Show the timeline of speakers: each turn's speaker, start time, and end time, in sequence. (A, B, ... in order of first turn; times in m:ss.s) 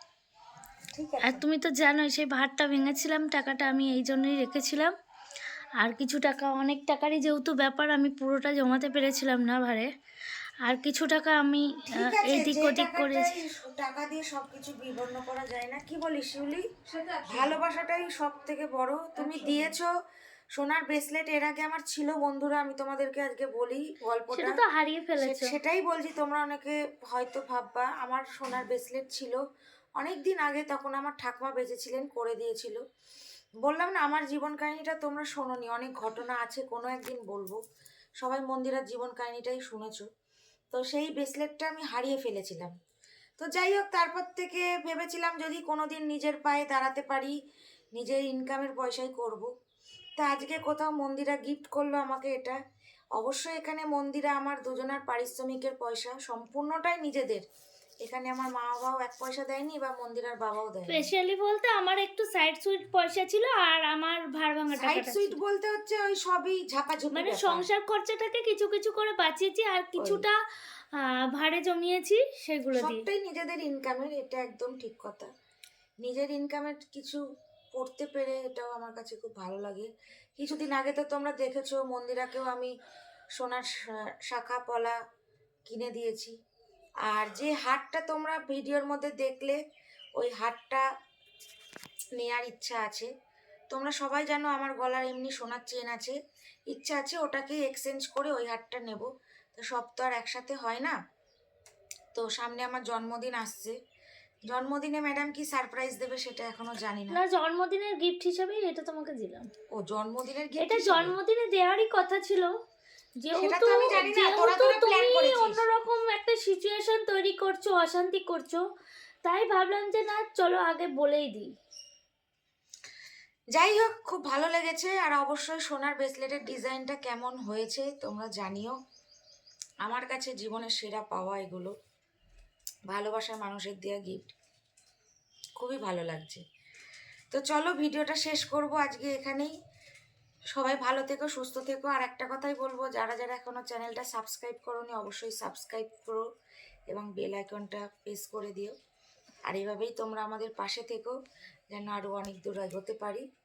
0:00.9-0:01.4 A
0:01.2-0:04.9 B
0:05.8-0:09.9 B
0:10.6-0:13.3 B
0:11.9-0:16.6 A
0:17.3-0:19.9 A
0:20.5-0:24.6 A
0:24.3-0:25.5 B
0:25.2-0:29.4 A
0:30.0-0:32.8 A
0:33.6-0:37.6 A
0:38.2-0:40.1 A
0:40.7-0:42.7 A
0:43.4-0:47.3 A
0:48.0-0:49.5 A
0:50.2-0:52.6 A
0:53.2-0:57.4 A
0:58.0-1:01.1 A
1:00.9-1:05.4 B
1:04.8-1:07.7 A
1:07.1-1:10.4 B
1:10.0-1:10.2 A
1:10.9-1:13.0 B
1:12.8-1:15.3 A
1:16.0-1:17.2 A
1:17.7-1:22.7 A
1:23.4-1:23.7 A
1:24.2-1:25.0 A
1:25.6-1:26.3 A
1:27.0-1:29.6 A
1:30.2-1:30.8 A
1:32.2-1:33.1 A
1:33.7-1:36.2 A
1:36.7-1:41.0 A
1:42.1-1:43.7 A
1:44.5-1:47.2 A
1:47.1-1:49.5 B
1:49.7-1:51.2 A
1:50.6-1:52.5 B
1:53.2-1:58.6 B
1:53.3-1:55.6 A
1:59.2-2:01.5 B
2:03.5-2:08.8 A
2:09.8-2:11.7 A
2:12.9-2:14.3 A
2:15.6-2:16.4 A
2:17.3-2:19.5 A
2:20.5-2:26.2 A
2:26.9-2:28.7 A
2:29.5-2:31.2 A
2:31.7-2:33.2 A